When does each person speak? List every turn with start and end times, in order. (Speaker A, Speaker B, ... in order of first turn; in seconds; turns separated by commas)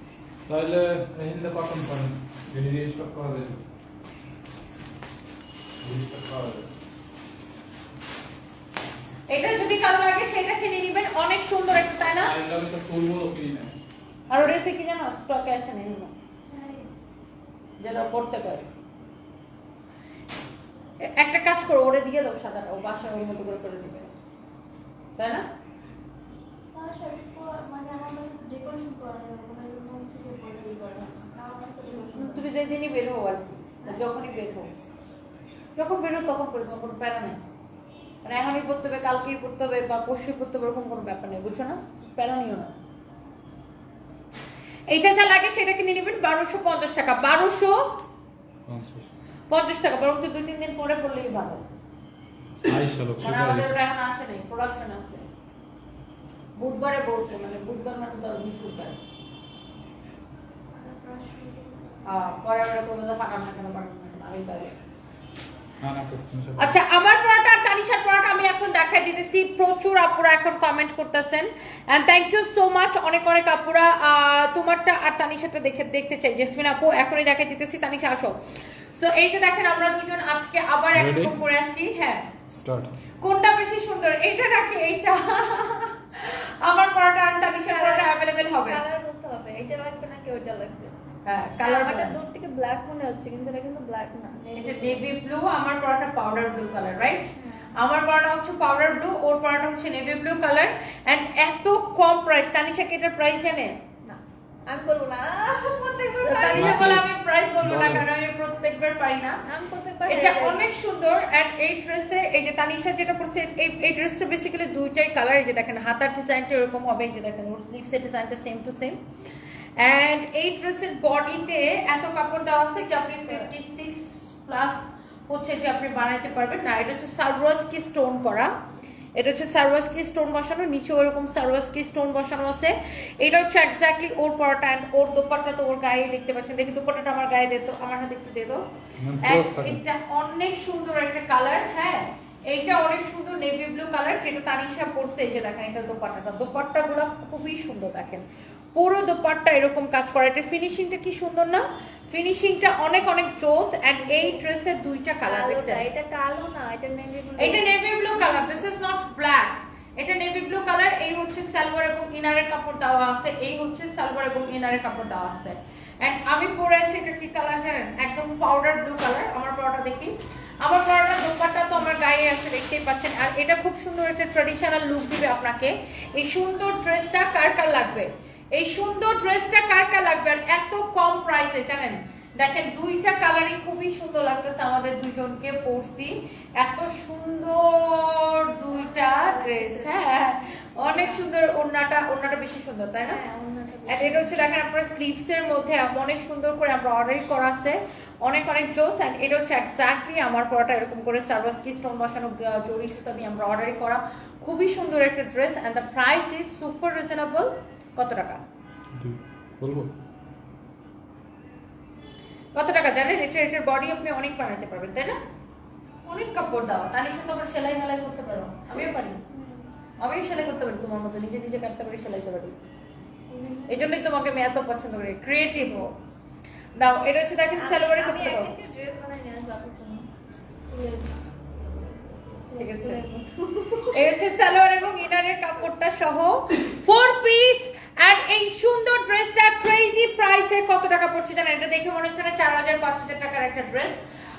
Speaker A: 0.5-3.6, Speaker A: 5.8-6.7, Speaker B: 9.3-12.3, Speaker A: 12.0-13.7, Speaker B: 14.3-16.1, Speaker C: 16.5-16.9, Speaker B: 17.8-18.7, Speaker B: 21.0-24.1, Speaker B: 25.2-25.5, Speaker C: 26.7-32.5, Speaker B: 32.1-34.7, Speaker B: 35.8-37.4, Speaker B: 38.2-42.7, Speaker B: 44.9-48.0, Speaker A: 48.7-49.1, Speaker B: 49.5-51.6, Speaker A: 52.6-53.8, Speaker B: 53.2-55.2, Speaker B: 56.6-59.0, Speaker C: 60.7-62.0, Speaker B: 62.0-64.8, Speaker A: 65.8-66.8, Speaker B: 66.6-78.4, Speaker B: 78.9-82.3, Speaker A: 81.0-81.3, Speaker A: 82.5-83.0, Speaker B: 83.2-88.8, Speaker C: 87.7-90.9, Speaker B: 91.2-92.2, Speaker C: 91.6-95.0, Speaker B: 94.6-103.8, Speaker C: 97.4-97.7, Speaker C: 104.0-106.9, Speaker B: 106.2-109.4, Speaker A: 106.5-108.1, Speaker C: 109.5-110.6, Speaker B: 110.1-119.0, Speaker B: 119.8-128.5, Speaker B: 129.2-138.6, Speaker A: 139.0-139.8, Speaker B: 139.2-155.8, Speaker C: 154.0-154.4, Speaker C: 155.2-158.3, Speaker B: 157.4-193.2, Speaker C: 188.8-190.1, Speaker C: 190.9-191.2, Speaker C: 193.0-194.4, Speaker B: 193.9-208.4, Speaker A: 208.9-209.9, Speaker B: 212.5-215.2, Speaker B: 216.1-219.2, Speaker C: 219.3-219.7, Speaker B: 220.0-222.6, Speaker C: 223.3-223.9, Speaker B: 223.7-225.9, Speaker B: 226.8-228.5, Speaker C: 227.6-230.1, Speaker C: 230.7-231.1, Speaker C: 232.5-234.0, Speaker B: 232.5-233.0, Speaker B: 233.9-244.0